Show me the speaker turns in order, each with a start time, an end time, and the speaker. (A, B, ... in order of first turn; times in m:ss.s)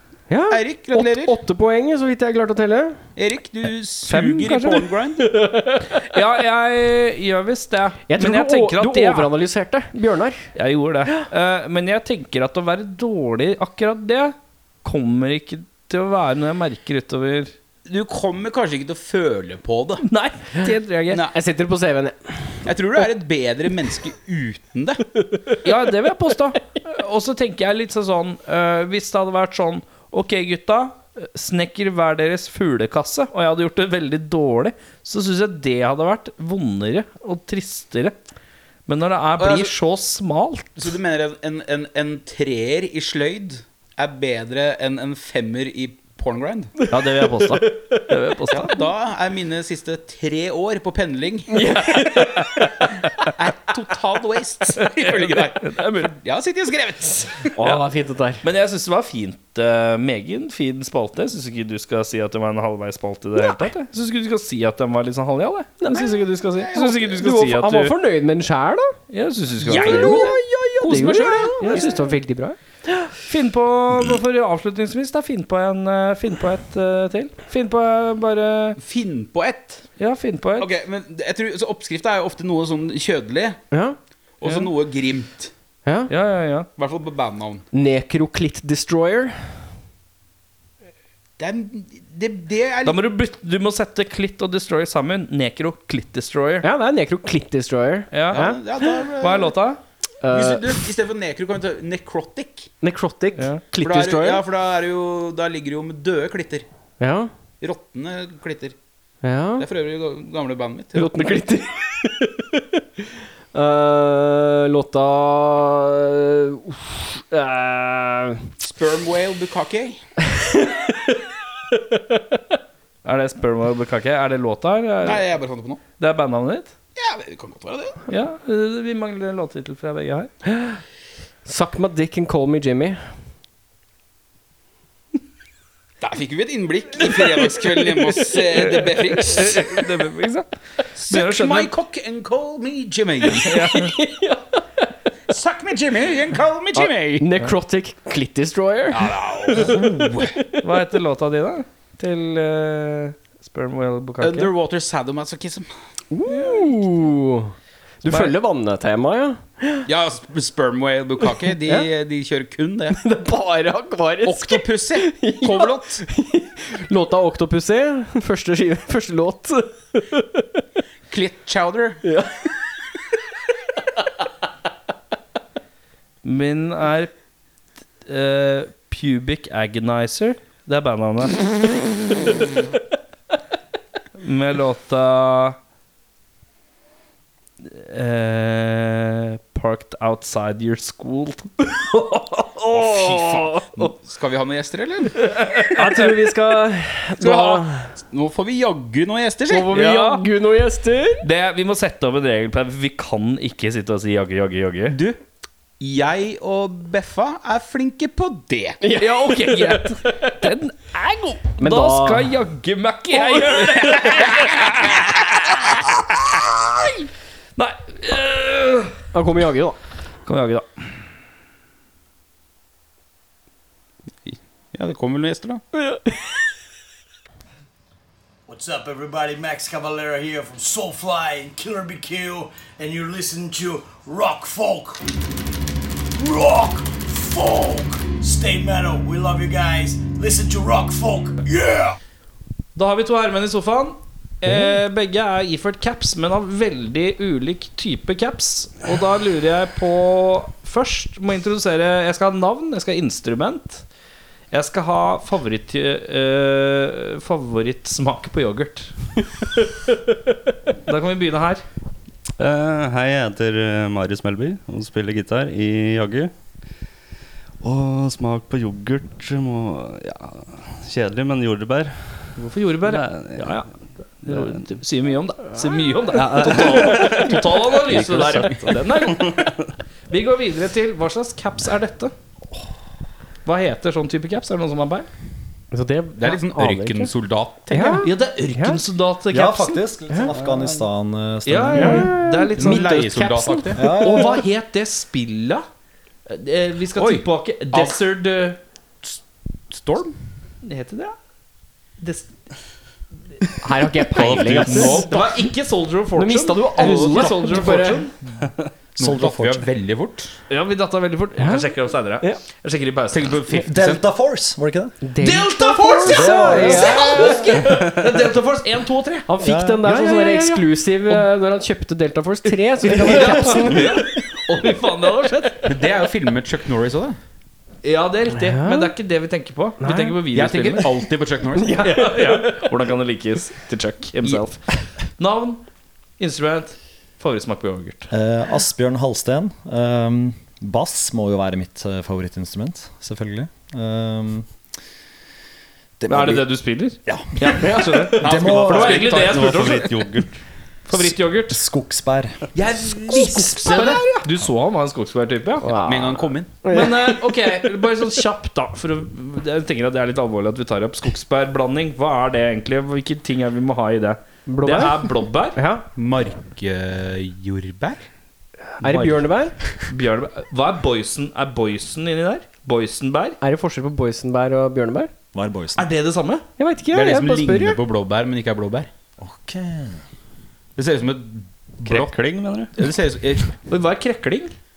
0:00.3-0:03.0 A
0:00.5-0:01.4 B
0:03.2-0:05.3 B
0:04.1-0:04.9 C
0:05.4-0:09.3 C
0:08.1-0:10.5 A
0:10.6-0:17.5 C
0:17.8-0:20.1 B
0:20.1-0:21.3 C
0:21.1-0:21.4 B
0:21.3-0:22.6 A
0:22.6-0:25.0 B
0:25.6-0:38.1 C
0:38.9-0:40.9 C
0:39.4-0:39.7 B
0:40.8-0:46.7 B
0:46.9-0:48.8 C
0:47.4-0:48.0 A
0:48.5-0:51.8 B
0:51.5-0:52.8 A
0:52.0-0:52.7 C
0:53.4-0:57.5 B
0:54.8-0:56.1 C
0:57.6-0:58.4 A
0:58.4-1:06.1 C
1:05.8-1:09.0 A
1:05.9-1:07.2 B
1:06.7-1:08.0 C
1:09.1-1:10.3 C
1:09.6-1:12.1 B
1:09.7-1:13.1 A
1:10.9-1:12.0 C
1:13.2-1:18.8 C
1:18.8-1:19.9 B
1:20.0-1:20.7 C
1:20.6-1:23.6 B
1:23.7-1:24.0 A
1:24.4-1:25.5 B
1:24.4-1:24.7 C
1:25.8-1:26.1 A
1:26.1-1:26.7 C
1:26.8-1:27.6 B
1:27.7-1:29.6 A
1:31.4-1:33.0 B
1:32.8-1:36.7 C
1:36.6-1:38.6 A
1:38.1-1:38.5 C
1:38.3-1:39.6 B
1:39.2-1:39.8 C
1:40.2-1:40.8 A
1:40.3-1:42.7 B
1:42.8-1:44.4 A
1:43.8-1:46.7 B
1:47.0-1:47.3 A
1:47.6-1:48.8 B
1:49.2-1:49.7 A
1:49.6-1:51.4 B
1:51.0-1:52.8 A
1:53.5-1:58.5 A
1:58.6-2:00.0 B
2:00.2-2:02.4 A
2:03.0-2:05.3 C
2:05.0-2:05.8 B
2:06.0-2:06.7 C
2:07.0-2:08.0 B
2:08.1-2:10.3 C
2:10.5-2:10.8 A
2:11.4-2:13.0 A
2:16.0-2:19.9 B
2:18.5-2:20.5 C
2:21.0-2:23.7 B
2:21.1-2:21.7 C
2:23.4-2:24.0 C
2:23.4-2:24.6 A
2:25.3-2:27.3 B
2:26.8-2:30.6 A
2:28.9-2:30.4 B
2:30.6-2:34.5 C
2:34.2-2:35.7 B
2:36.1-2:39.9 A
2:36.4-2:36.7 C
2:39.9-2:43.0 B
2:41.6-2:41.9 A
2:42.9-2:50.5 A
2:44.2-2:46.0 B
2:51.1-2:52.0 B
2:52.0-2:52.5 A
2:56.2-2:57.1 C
2:58.1-3:01.6 C
3:04.2-3:05.6 C
3:07.6-3:13.8 C
3:12.7-3:15.2 B
3:15.2-3:16.1 C
3:15.7-3:17.9 A
3:17.2-3:19.8 B
3:19.5-3:21.2 A
3:19.7-3:20.3 C
3:21.2-3:25.0 C
3:24.9-3:25.2 B
3:25.8-3:28.8 B
3:28.8-3:30.4 A
3:28.9-3:39.0 C
3:31.6-3:32.3 A
3:33.4-3:34.8 B
3:39.1-3:39.8 A
3:40.3-3:40.7 C
3:44.2-3:45.6 B
3:48.5-3:55.0 D
3:56.2-4:02.0 D
4:02.8-4:13.9 C
4:14.5-4:19.6 C
4:20.9-4:21.6 C
4:22.4-4:26.3 E
4:27.6-4:32.3 E
4:32.4-4:33.7 C
4:32.8-4:33.6 E
4:34.2-4:39.6 C
4:34.3-4:34.6 E
4:36.1-4:39.6 E
4:40.1-4:42.1 C
4:43.4-4:45.1 C
4:45.7-4:47.1 A
4:46.2-4:48.0 B
4:47.7-4:48.8 A
4:48.0-4:49.8 C
4:49.3-4:52.1 F
4:50.3-4:50.8 E
4:51.5-4:55.6 C
4:51.8-4:53.0 A
4:52.6-4:54.3 B
4:53.8-4:54.4 F
4:56.3-4:58.6 C
4:57.0-4:58.0 B
4:59.0-5:00.2 B
5:00.6-5:01.2 C
5:02.0-5:02.3 C
5:03.6-5:05.4 A
5:04.2-5:05.0 E
5:04.5-5:08.2 C
5:04.6-5:05.3 B
5:06.2-5:08.0 A
5:06.8-5:07.8 B
5:09.0-5:10.4 B
5:09.0-5:09.7 F
5:10.5-5:13.4 C
5:11.4-5:12.4 A
5:13.1-5:14.1 B
5:13.6-5:15.0 F
5:15.0-5:17.6 A
5:15.2-5:19.3 C
5:16.0-5:17.6 B
5:16.1-5:17.2 F
5:17.6-5:18.0 E
5:19.3-5:24.1 A
5:19.4-5:19.9 F
5:19.8-5:21.3 C
5:22.8-5:25.8 C
5:22.9-5:23.6 F
5:25.6-5:27.2 B
5:27.8-5:31.0 C
5:28.4-5:28.9 A
5:29.8-5:30.2 A
5:30.3-5:31.9 B
5:31.6-5:32.7 A
5:31.8-5:35.6 C
5:36.2-5:38.1 C
5:38.1-5:44.5 F
5:46.0-5:46.4 F
5:46.1-5:50.0 C
5:47.4-5:49.9 B
5:48.2-5:49.1 F
5:49.0-5:50.4 E
5:50.9-5:51.6 C
5:50.9-5:52.4 F
5:52.6-5:54.1 B
5:53.1-5:54.2 A
5:53.1-5:55.7 C
5:55.6-5:57.7 A
5:55.8-5:56.5 B
5:56.7-6:05.6 C
6:04.5-6:05.8 A
6:06.0-6:08.1 B
6:08.8-6:09.6 A
6:08.8-6:09.3 C
6:09.8-6:13.4 C
6:13.4-6:15.1 A
6:15.3-6:15.9 F
6:15.8-6:16.4 C
6:16.6-6:17.8 A
6:16.9-6:18.9 B
6:19.2-6:20.0 F
6:20.8-6:22.1 B
6:21.9-6:22.8 E
6:22.8-6:23.5 B
6:23.7-6:24.5 C